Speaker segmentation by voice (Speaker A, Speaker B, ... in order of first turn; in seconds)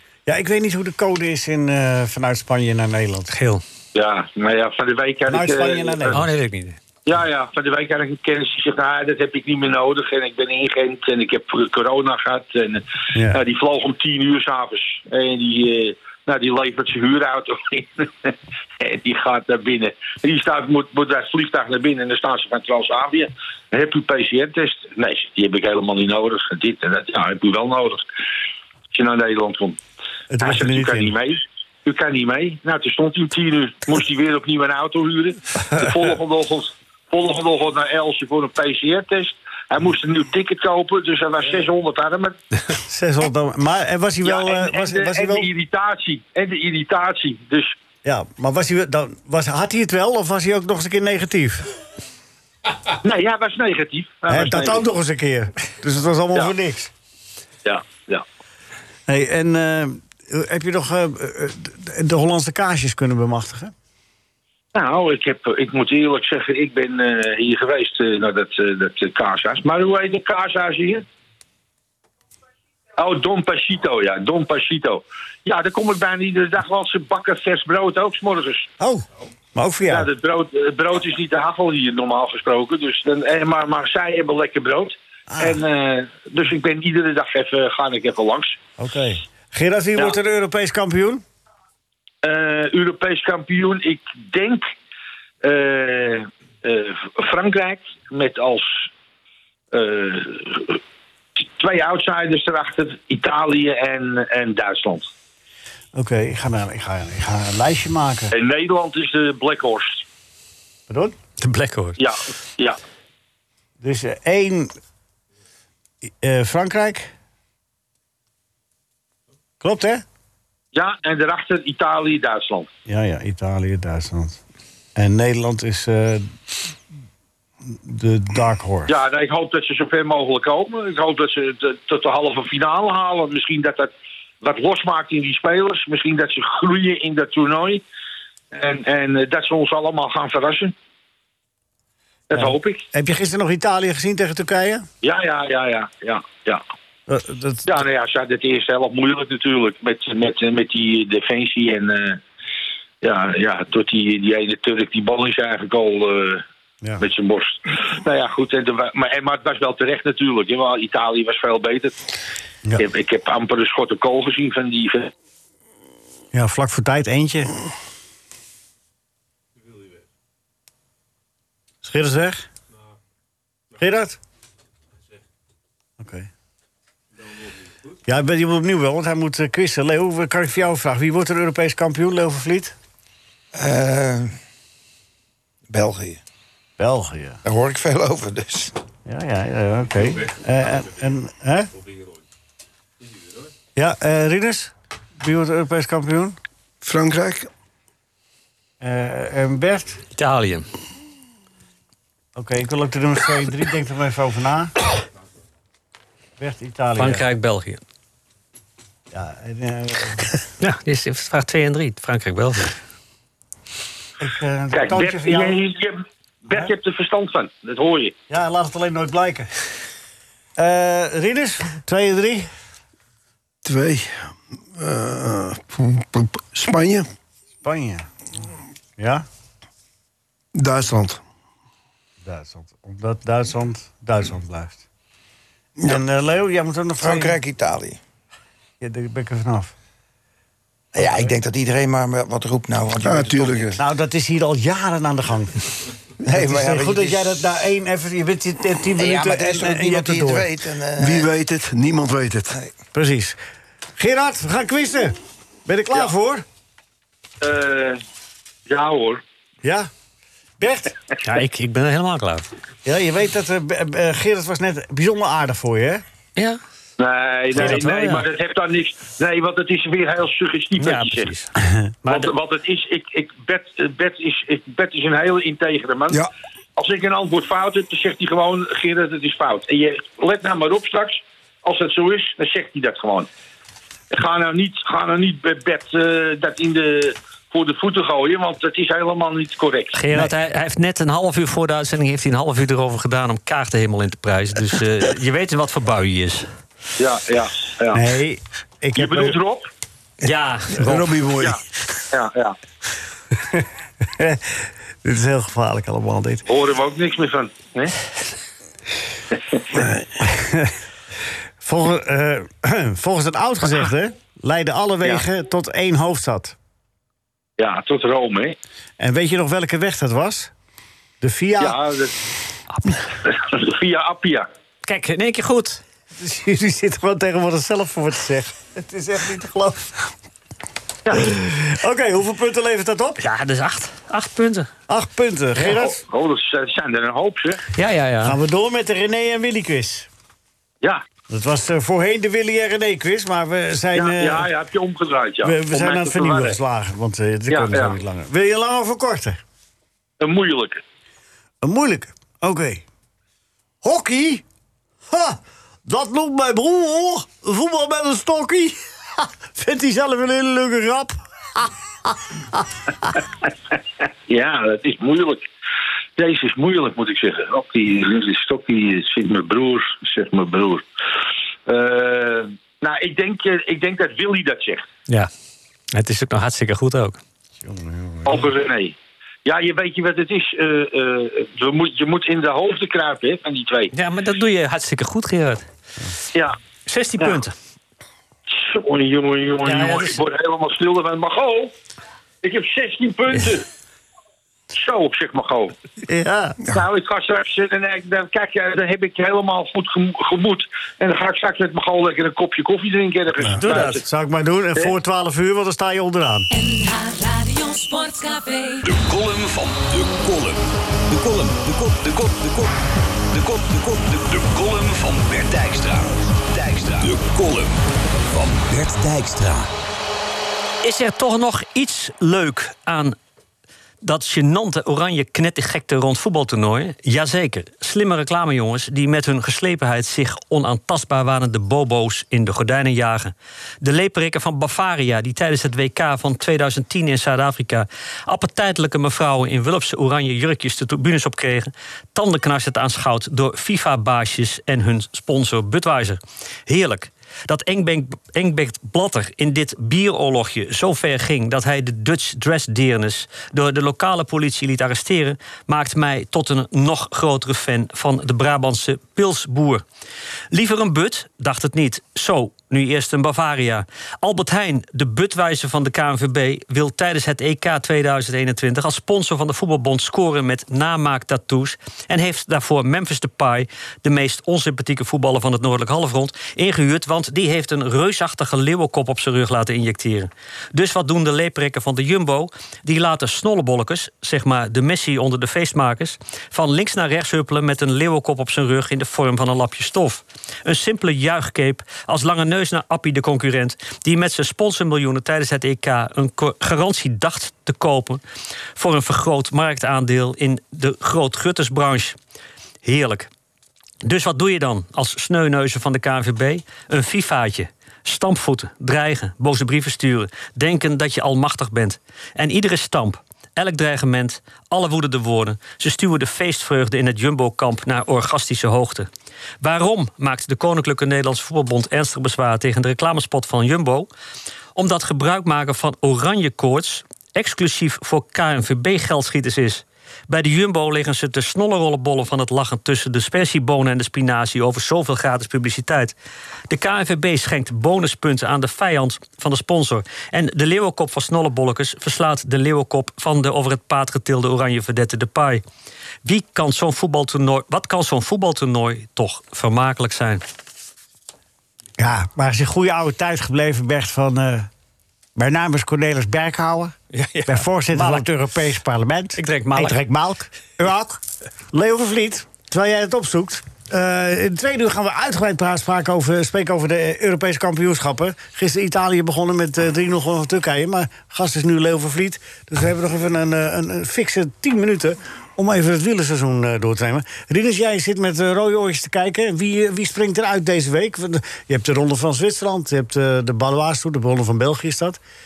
Speaker A: 0.3-3.3, 5.3-6.2, 13.2-13.4, 30.3-31.1, 42.9-45.5, 48.0-51.7, 54.3-56.9, 59.1-63.7, 78.8-80.1, 85.3-85.6, 88.8-91.2, 105.9-108.3, 110.9-111.2, 113.8-114.8, 116.1-117.1, 119.6-120.0, 122.9-124.4, 125.0-126.3, 127.7-128.9, 142.3-144.9, 147.1-147.7, 166.3-167.5, 171.8-172.5, 173.8-174.2, 176.0-176.3, 178.1-182.8, 186.8-187.4, 189.1-191.7, 193.8-196.4, 198.8-200.0, 202.3-204.7, 206.4-207.2, 209.1-210.4, 214.2-215.6, 218.3-219.5, 220.6-222.5, 227.6-228.1, 229.0-229.2, 232.2-234.8, 235.8-237.4, 238.8-239.7, 243.8-245.7, 246.3-250.5, 252.9-253.4, 254.0-256.4, 259.6-259.9, 260.6-260.9, 262.9-266.0, 267.6-267.8, 297.9-299.4, 303.4-306.5, 310.2-310.7, 311.6-316.6, 319.0-320.5, 321.2-321.8, 326.2-329.9, 331.1-333.2, 334.9-336.0, 338.2-340.1, 341.3-344.5, 345.4-349.4, 351.6-352.8, 353.8-354.4, 355.1-363.1, 377.6-378.4, 396.1-396.6, 403.4-406.5, 552.0-554.7, 555.4-557.0, 557.5-561.2, 561.7-585.2
Speaker B: 3.3-3.6, 6.1-6.8, 111.4-112.0, 200.2-200.7, 207.0-207.8, 210.6-212.8, 261.2-262.5, 267.6-268.3, 270.8-271.5, 289.9-296.5, 300.2-301.1, 324.9-325.8, 333.2-334.7, 337.7-338.4, 375.9-377.2, 383.9-385.7, 386.9-387.6, 389.6-390.2, 420.8-423.2, 424.0-459.8, 460.5-498.2, 498.8-502.2, 502.8-503.3, 504.0-519.1, 519.6-524.1, 524.8-536.1, 536.7-545.6, 546.2-550.4, 557.1-558.3, 559.4-560.0
Speaker C: 3.9-6.2, 7.1-28.1, 28.9-29.8, 30.4-42.4, 44.2-47.8, 53.0-54.9, 57.6-58.2, 64.7-71.0, 73.0-78.7, 79.9-88.6, 92.2-94.7, 95.4-98.9, 99.7-100.8, 101.4-105.1, 108.3-110.0, 112.0-112.8, 120.7-122.7, 128.9-137.8, 138.5-140.7, 142.3-142.8, 145.0-146.6, 147.7-152.2, 153.0-156.4, 157.0-162.0, 162.8-165.1, 214.7-218.1, 257.4-258.0, 258.7-259.2, 267.0-271.3, 272.1-283.3, 284.1-290.0, 297.0-298.0, 298.9-299.7, 302.1-302.6, 306.5-307.9, 309.3-309.6, 317.6-318.6, 321.6-322.1, 323.2-324.5, 335.6-337.6, 343.9-346.6, 347.5-347.9, 350.2-350.8, 364.3-365.5, 366.2-370.9, 371.7-374.8, 378.3-383.9, 388.5-391.7, 392.4-393.7, 394.7-395.8, 396.7-404.0
Speaker D: 183.5-184.3, 185.7-186.2, 187.4-188.8, 237.0-238.0, 240.9-243.8, 246.2-247.4, 249.0-251.3
Speaker E: 196.8-197.5, 223.6-227.1, 230.6-231.2, 243.0-243.8, 251.0-252.6, 300.2-301.6, 309.7-310.1
Speaker F: 406.5-408.9
Speaker G: 408.9-412.7, 413.3-419.7